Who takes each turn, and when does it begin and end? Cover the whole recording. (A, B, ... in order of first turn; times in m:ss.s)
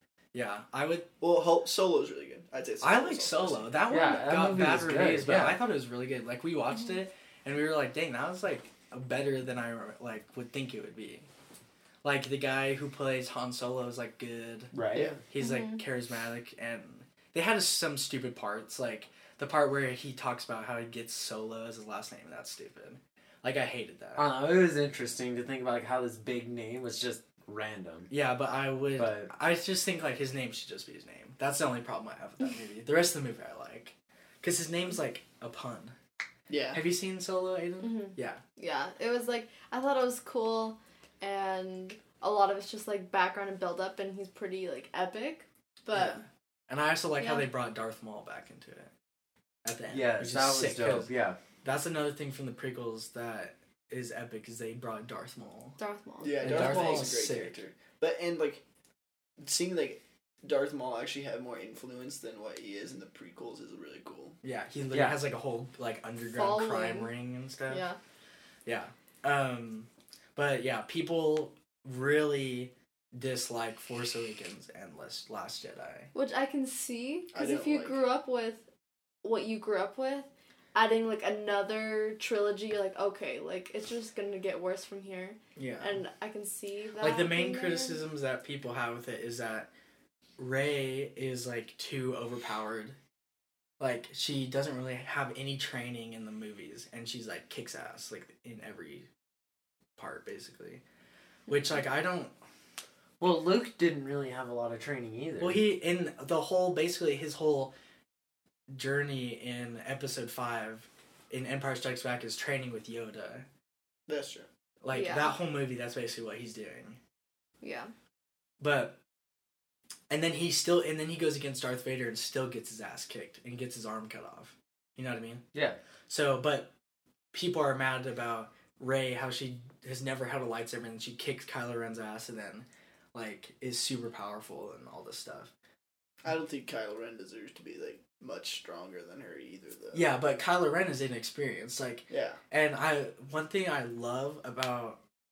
0:00.3-0:01.1 A
0:01.2-0:03.7 B
0:02.8-0:11.3 A
0:03.9-0:05.6 C
0:12.0-0:24.2 A
0:14.7-0:15.2 C
0:15.4-0:15.8 D
0:24.2-0:28.1 C
0:28.1-0:36.0 A
0:29.0-0:29.3 C
0:36.5-0:36.8 B
0:36.7-0:38.4 A
0:37.8-0:46.2 D
0:45.9-0:48.9 A
0:47.2-0:47.5 D
0:49.6-0:51.1 A
0:49.9-0:51.4 C
0:51.6-0:55.8 A
0:55.8-0:57.0 D
0:56.2-0:58.6 B
0:56.4-0:57.6 A
0:59.4-1:04.4 B
1:04.4-1:07.8 A
1:04.9-1:05.2 C
1:06.3-1:07.1 D
1:07.7-1:08.0 D
1:08.7-1:16.1 A
1:16.1-1:18.7 D
1:17.3-1:18.0 B
1:19.2-1:28.0 D
1:25.6-1:26.0 A
1:27.0-1:29.7 A
1:30.4-1:33.0 A
1:33.8-1:39.1 A
1:40.0-1:40.8 A
1:41.5-1:42.3 A
1:43.2-1:45.6 C
1:45.4-1:47.8 A
1:48.7-1:53.5 A
1:54.1-1:54.5 B
1:54.8-1:57.0 A
1:54.9-1:55.4 D
1:57.6-1:57.9 D
1:58.6-1:59.0 A
2:00.1-2:05.4 A
2:05.5-2:05.8 C
2:06.1-2:06.7 A
2:07.3-2:15.5 A
2:16.2-2:20.1 B
2:19.9-2:25.0 A
2:22.1-2:22.4 B